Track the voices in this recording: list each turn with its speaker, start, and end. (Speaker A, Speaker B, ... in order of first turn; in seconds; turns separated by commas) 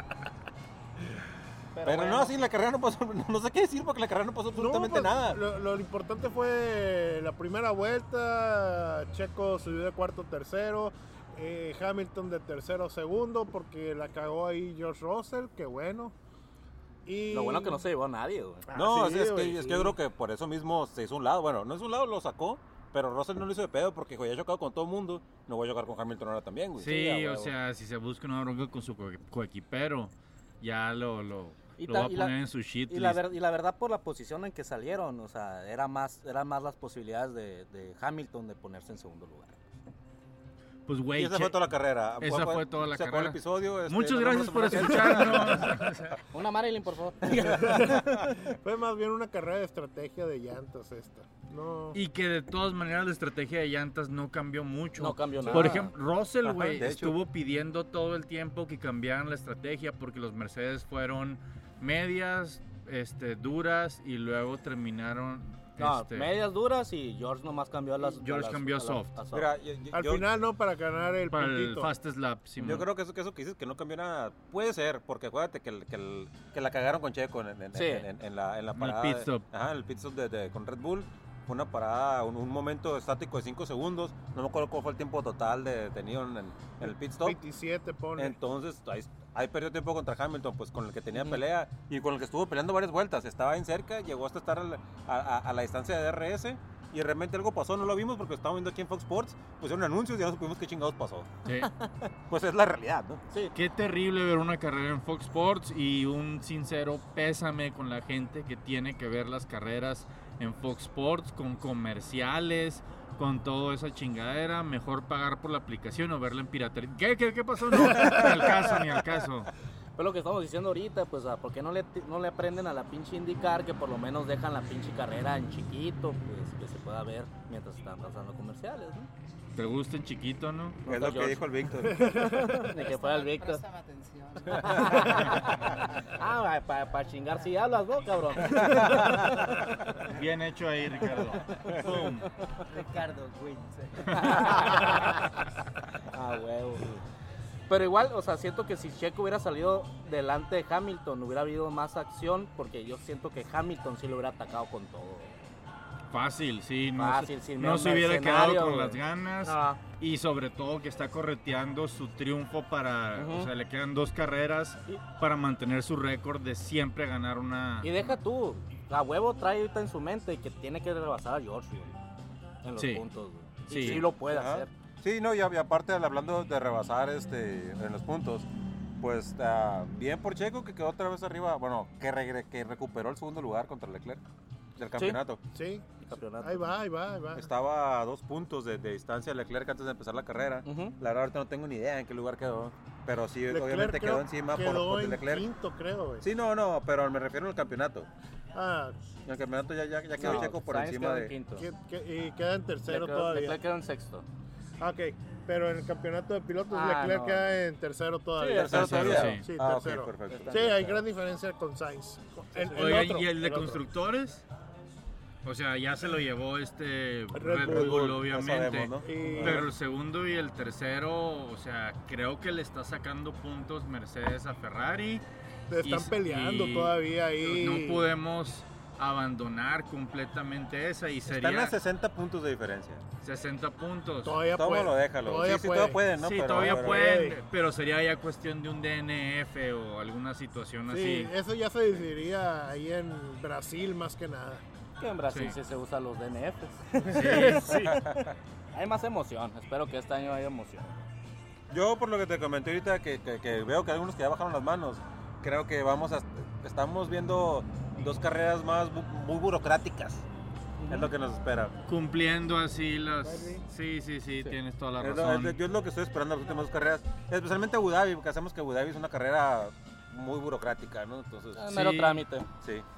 Speaker A: 1.8-2.4, Speaker B: 1.8-5.4, Speaker C: 4.5-16.1, Speaker C: 17.1-17.8, Speaker A: 17.3-18.7, Speaker C: 18.7-19.9, Speaker B: 18.7-27.5, Speaker D: 26.8-33.2, Speaker A: 31.8-32.4, Speaker A: 32.9-39.6, Speaker D: 40.9-41.6, Speaker B: 41.1-45.8, Speaker D: 42.2-46.2, Speaker A: 46.3-48.2, Speaker C: 47.4-52.0, Speaker D: 51.9-66.3, Speaker A: 55.0-55.9, Speaker B: 56.4-57.2, Speaker A: 65.8-69.5, Speaker D: 68.2-69.1, Speaker B: 69.3-70.2, Speaker C: 69.9-71.9, Speaker D: 71.3-72.9, Speaker B: 72.6-87.4, Speaker A: 77.7-78.1, Speaker D: 78.8-79.4, Speaker C: 87.2-88.4, Speaker B: 88.2-101.3, Speaker D: 101.4-101.7, Speaker B: 102.3-103.2, Speaker D: 103.5-119.5, Speaker A: 120.0-129.1, Speaker D: 129.6-130.8, Speaker A: 130.8-131.5, Speaker B: 130.9-132.2, Speaker C: 131.8-132.7, Speaker A: 132.1-133.6, Speaker E: 132.7-136.1, Speaker A: 134.6-139.7, Speaker B: 134.7-135.0, Speaker B: 138.6-139.5, Speaker D: 140.1-142.3, Speaker E: 142.7-145.2, Speaker D: 144.1-144.4, Speaker A: 144.1-145.3, Speaker A: 146.1-146.9, Speaker A: 147.7-155.3, Speaker D: 156.1-168.1, Speaker A: 157.0-159.8, Speaker A: 163.2-163.5, Speaker A: 167.8-171.9, Speaker A: 172.6-174.7, Speaker D: 172.8-173.0, Speaker D: 173.7-174.1, Speaker B: 173.7-178.5, Speaker B: 179.0-184.2, Speaker B: 184.8-185.4, Speaker C: 185.5-185.9, Speaker A: 186.0-186.8, Speaker C: 186.4-187.5, Speaker B: 187.3-195.5, Speaker A: 190.7-191.0, Speaker C: 193.5-196.2, Speaker B: 196.2-198.1, Speaker C: 198.5-199.0, Speaker B: 199.2-201.3, Speaker A: 200.2-201.7, Speaker C: 201.6-203.6, Speaker A: 202.9-204.2, Speaker C: 204.8-213.8, Speaker A: 206.7-207.5, Speaker A: 208.4-209.3, Speaker B: 208.5-210.6, Speaker D: 208.7-209.5, Speaker A: 210.3-211.1, Speaker D: 212.7-214.4, Speaker D: 215.4-225.2, Speaker C: 217.3-218.1, Speaker B: 217.6-219.7, Speaker C: 219.0-219.7, Speaker C: 225.7-228.1, Speaker D: 225.8-231.8, Speaker B: 231.3-233.0, Speaker D: 233.2-234.4, Speaker C: 234.2-236.1, Speaker B: 234.5-237.1, Speaker D: 236.2-241.3, Speaker C: 236.6-237.4, Speaker C: 240.9-244.6, Speaker A: 245.0-251.0, Speaker D: 245.3-245.6, Speaker C: 247.0-248.0, Speaker D: 247.1-247.8, Speaker B: 247.7-248.3, Speaker B: 251.7-260.3, Speaker A: 260.8-261.1, Speaker B: 260.9-261.7, Speaker D: 261.9-265.6, Speaker C: 263.3-263.6, Speaker B: 265.0-271.7, Speaker A: 271.6-272.5, Speaker D: 271.7-272.2